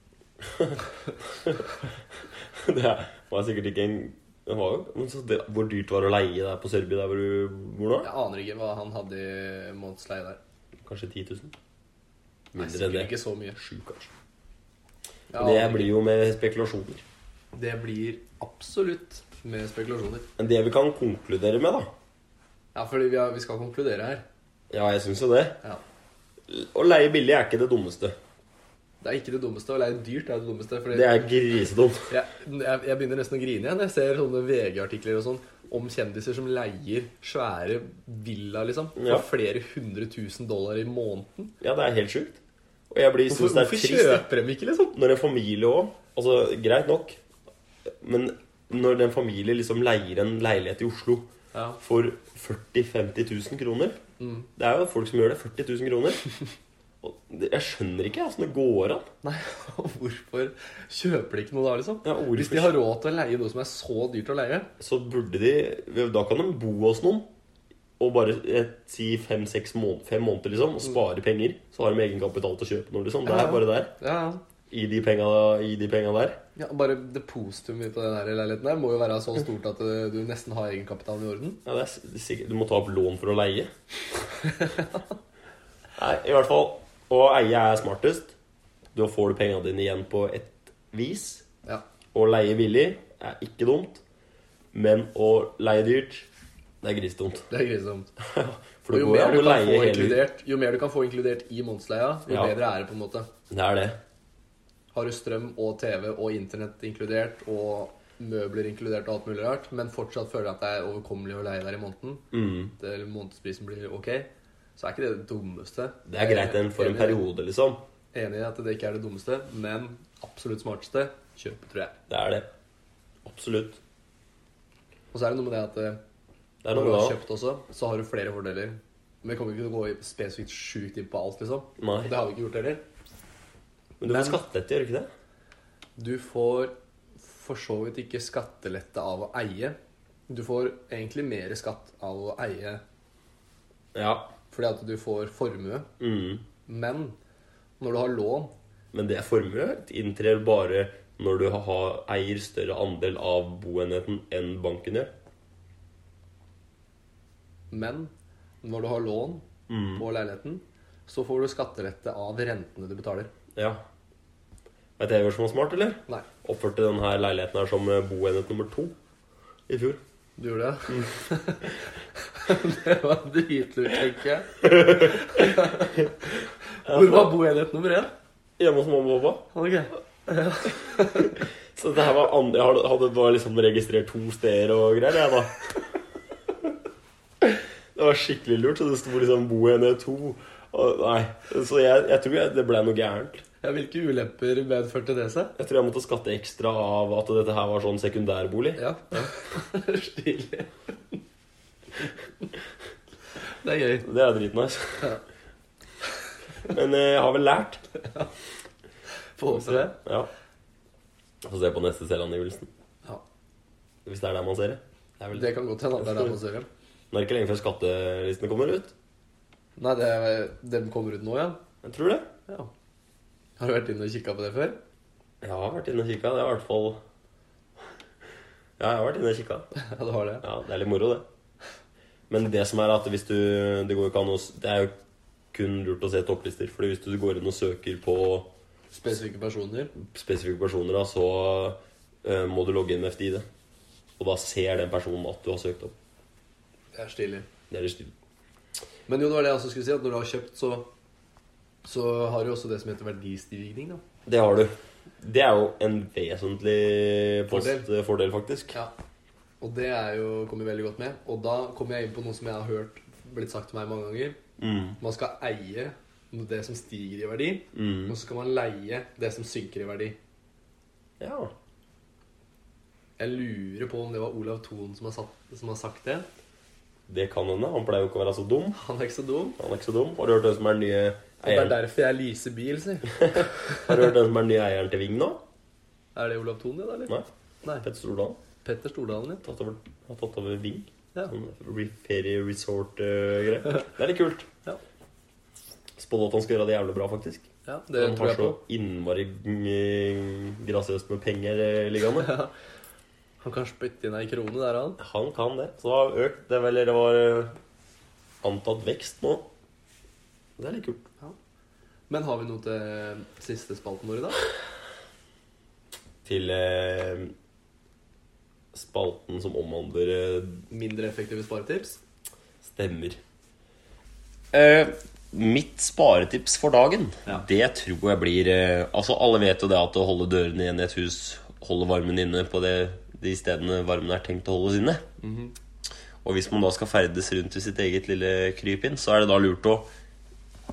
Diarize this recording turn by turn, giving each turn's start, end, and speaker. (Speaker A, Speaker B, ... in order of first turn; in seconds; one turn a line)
Speaker A: 0.4-1.7
Speaker A: 2.3-8.1
Speaker B: 8.0-10.4
Speaker A: 10.8-11.5
Speaker A: 12.5-14.1
Speaker B: 12.6-13.6
Speaker B: 15.3-15.9
Speaker A: 15.3-17.0
Speaker B: 17.5-20.3
Speaker A: 20.4-21.9
Speaker B: 22.7-24.2
Speaker A: 24.7-25.6
Speaker A: 26.5-28.1
Speaker B: 29.0-31.1
Speaker A: 30.9-32.1
Speaker B: 32.1-41.5
Speaker A: 39.0-39.2
Speaker A: 41.6-44.2
Speaker B: 43.3-45.0
Speaker A: 44.9-47.2
Speaker A: 47.9-54.0
Speaker B: 51.5-51.8
Speaker B: 54.2-54.5
Speaker A: 54.5-56.2
Speaker A: 57.0-59.1
Speaker B: 59.2-64.7
Speaker A: 62.0-62.8
Speaker A: 64.8-67.3
Speaker A: 68.0-73.9
Speaker B: 73.2-74.4
Speaker A: 74.7-76.4
Speaker B: 76.5-81.6
Speaker A: 81.6-83.7
Speaker B: 84.6-84.9
Speaker A: 86.0-88.3
Speaker A: 88.9-91.5
Speaker A: 92.1-94.0
Speaker A: 94.7-96.3
Speaker A: 96.8-97.5
Speaker B: 97.5-98.1
Speaker A: 98.2-100.2
Speaker B: 98.9-103.3
Speaker A: 102.3-102.5
Speaker A: 103.5-104.0
Speaker B: 104.9-117.2
Speaker A: 112.3-112.7
Speaker A: 116.1-117.8
Speaker B: 118.1-122.0
Speaker A: 122.1-122.5
Speaker A: 123.2-123.8
Speaker B: 125.1-126.0
Speaker A: 126.6-127.2
Speaker B: 126.7-132.8
Speaker A: 131.8-132.1
Speaker A: 134.0-135.1
Speaker B: 134.0-134.4
Speaker B: 136.0-139.8
Speaker B: 140.3-142.8
Speaker A: 143.9-144.3
Speaker B: 144.5-145.9
Speaker A: 146.0-146.4
Speaker B: 146.7-147.2
Speaker B: 147.8-148.5
Speaker A: 148.9-155.1
Speaker B: 157.7-158.1
Speaker B: 158.6-163.3
Speaker A: 159.7-160.1
Speaker A: 163.5-163.8
Speaker A: 165.0-168.9
Speaker A: 169.7-170.0
Speaker B: 170.4-178.1
Speaker A: 170.9-171.1
Speaker A: 174.6-175.4
Speaker A: 176.8-177.3
Speaker A: 178.6-179.5
Speaker B: 179.5-181.4
Speaker A: 181.7-185.7
Speaker A: 187.4-193.4
Speaker B: 193.6-195.5
Speaker A: 195.6-199.3
Speaker B: 198.8-201.2
Speaker B: 203.6-204.1
Speaker A: 204.0-205.2
Speaker A: 206.7-207.8
Speaker B: 209.4-209.9
Speaker A: 209.5-210.3
Speaker A: 211.4-212.7
Speaker A: 214.0-216.3
Speaker B: 215.3-216.7
Speaker A: 217.1-218.9
Speaker B: 219.8-221.6
Speaker A: 221.8-222.3
Speaker B: 223.6-224.8
Speaker A: 225.4-227.0
Speaker A: 228.8-229.7
Speaker B: 229.8-230.4
Speaker A: 230.4-231.2
Speaker A: 232.3-234.9
Speaker A: 235.5-238.5
Speaker B: 238.9-239.9
Speaker A: 240.0-243.4
Speaker A: 244.2-245.9
Speaker B: 246.9-247.5
Speaker A: 247.7-248.1
Speaker B: 249.1-250.9
Speaker B: 251.8-254.0
Speaker A: 254.2-258.7
Speaker B: 257.5-257.9
Speaker B: 259.6-264.4
Speaker A: 264.6-265.0
Speaker B: 265.0-270.2
Speaker A: 267.7-268.1
Speaker A: 271.2-271.5
Speaker B: 273.2-276.2
Speaker A: 277.1-278.8
Speaker B: 278.8-279.6
Speaker A: 279.6-281.8
Speaker B: 281.4-283.9
Speaker A: 283.2-285.4
Speaker B: 286.1-287.9
Speaker A: 287.8-288.4
Speaker B: 288.6-289.4
Speaker A: 289.4-294.5
Speaker A: 296.0-302.4
Speaker B: 297.6-298.6
Speaker B: 302.1-302.5
Speaker B: 303.4-305.0
Speaker A: 305.0-307.6
Speaker A: 308.4-309.5
Speaker A: 310.6-311.0
Speaker B: 312.1-314.4
Speaker A: 316.2-317.3
Speaker A: 318.7-320.6
Speaker B: 320.7-322.0
Speaker A: 322.6-323.2
Speaker A: 324.5-335.0
Speaker B: 335.2-335.5
Speaker A: 336.2-339.9